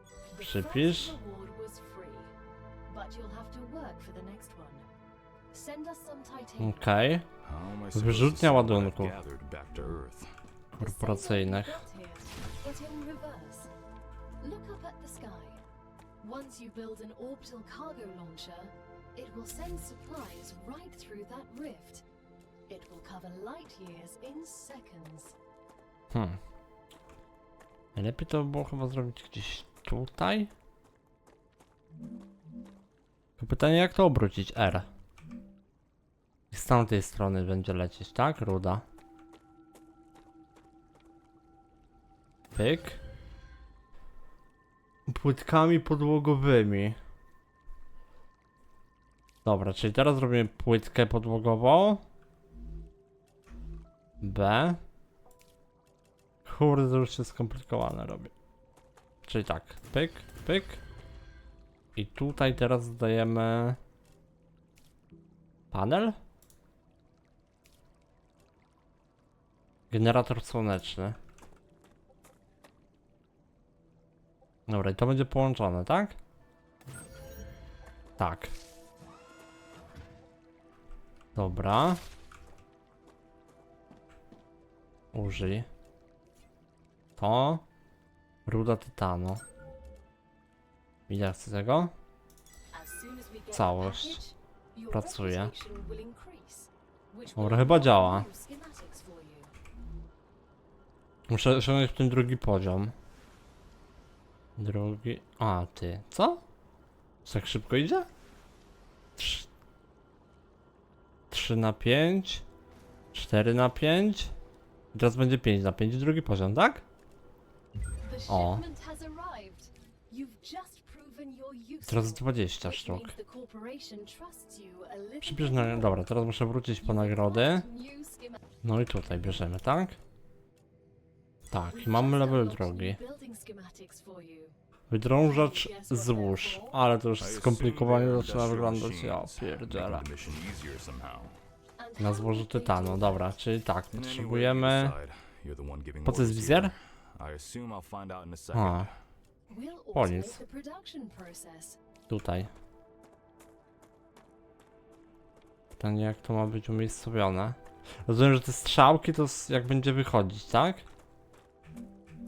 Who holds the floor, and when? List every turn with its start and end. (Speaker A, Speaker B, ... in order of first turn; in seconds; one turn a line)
Speaker A: 0.3-2.3
Speaker B: 0.4-1.2
Speaker A: 2.9-4.9
Speaker A: 5.5-6.9
Speaker B: 6.6-7.3
Speaker C: 7.4-10.3
Speaker B: 7.9-9.1
Speaker B: 10.8-11.8
Speaker A: 10.8-13.7
Speaker A: 14.4-15.6
Speaker A: 16.2-22.0
Speaker A: 22.7-25.4
Speaker B: 26.1-26.4
Speaker B: 27.9-30.5
Speaker B: 33.4-34.9
Speaker B: 36.5-38.8
Speaker B: 42.5-43.0
Speaker B: 45.1-47.0
Speaker B: 49.4-52.0
Speaker B: 54.2-54.8
Speaker B: 56.5-58.3
Speaker B: 59.2-60.8
Speaker B: 62.0-63.8
Speaker B: 65.7-66.1
Speaker B: 69.9-71.2
Speaker B: 74.7-76.2
Speaker B: 78.2-78.5
Speaker B: 81.3-82.0
Speaker B: 85.1-85.7
Speaker B: 87.2-87.6
Speaker B: 88.5-89.4
Speaker B: 91.1-91.9
Speaker A: 92.7-99.5
Speaker B: 93.5-94.2
Speaker B: 94.9-95.5
Speaker B: 97.4-98.3
Speaker B: 101.3-102.9
Speaker B: 104.6-106.4
Speaker B: 107.2-108.1
Speaker B: 109.2-109.5
Speaker B: 111.3-112.5
Speaker B: 113.1-114.3
Speaker B: 114.9-116.8
Speaker A: 118.0-126.0
Speaker B: 118.3-118.6
Speaker B: 121.8-123.1
Speaker B: 125.2-127.6
Speaker A: 126.8-128.4
Speaker B: 128.6-130.0
Speaker B: 131.5-133.0
Speaker A: 131.7-134.6
Speaker B: 134.9-140.1
Speaker A: 135.1-136.8
Speaker C: 137.2-141.3
Speaker A: 141.8-143.3
Speaker B: 142.0-144.9
Speaker C: 143.9-148.9
Speaker B: 146.0-146.7
Speaker B: 148.5-148.9
Speaker A: 149.5-151.8
Speaker B: 149.9-150.4
Speaker B: 152.1-152.5
Speaker B: 155.7-160.8